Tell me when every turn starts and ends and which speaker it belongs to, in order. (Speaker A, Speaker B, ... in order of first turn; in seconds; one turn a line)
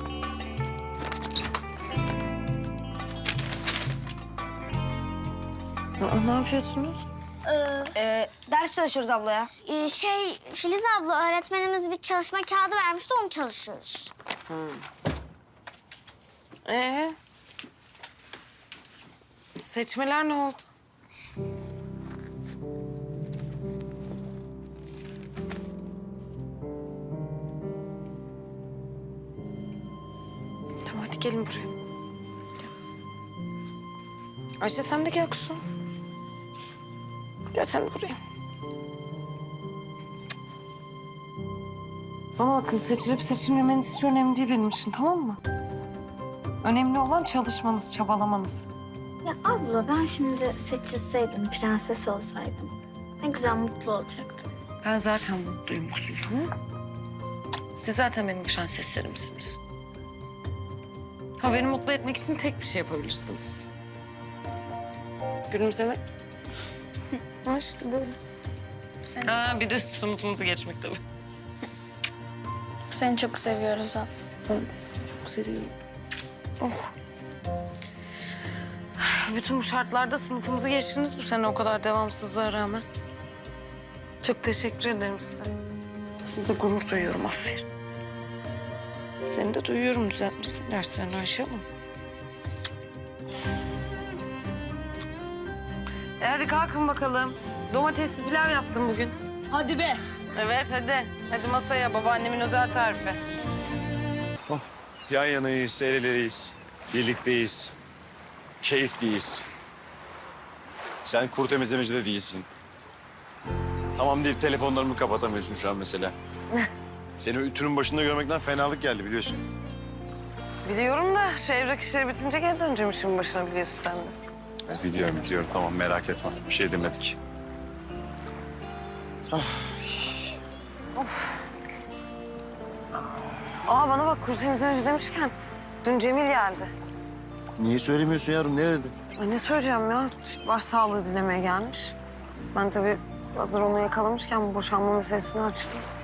Speaker A: 6.0-7.0
Speaker B: 7.5-9.5
Speaker C: 9.6-14.1
Speaker A: 14.5-14.8
Speaker A: 16.7-17.1
Speaker A: 19.6-20.7
Speaker A: 30.9-31.7
Speaker A: 34.6-35.6
Speaker A: 37.5-38.1
Speaker A: 42.4-45.4
Speaker A: 46.6-48.7
Speaker D: 49.2-54.5
Speaker A: 54.8-56.5
Speaker A: 57.8-59.6
Speaker A: 61.4-63.5
Speaker A: 65.5-66.0
Speaker A: 67.4-68.2
Speaker A: 69.2-71.0
Speaker D: 72.9-74.1
Speaker A: 74.5-75.7
Speaker A: 76.6-76.9
Speaker A: 79.0-82.8
Speaker A: 84.2-85.5
Speaker A: 86.3-87.7
Speaker A: 89.3-91.7
Speaker A: 96.2-99.2
Speaker A: 100.3-103.2
Speaker E: 104.5-107.7
Speaker E: 108.6-109.5
Speaker E: 111.0-112.5
Speaker E: 114.0-116.1
Speaker E: 117.2-119.4
Speaker A: 120.7-124.1
Speaker E: 124.7-127.2
Speaker E: 129.3-129.7
Speaker A: 131.0-131.3
Speaker A: 133.7-136.7
Speaker E: 137.6-138.9
Speaker A: 139.2-141.9
Speaker A: 142.6-145.8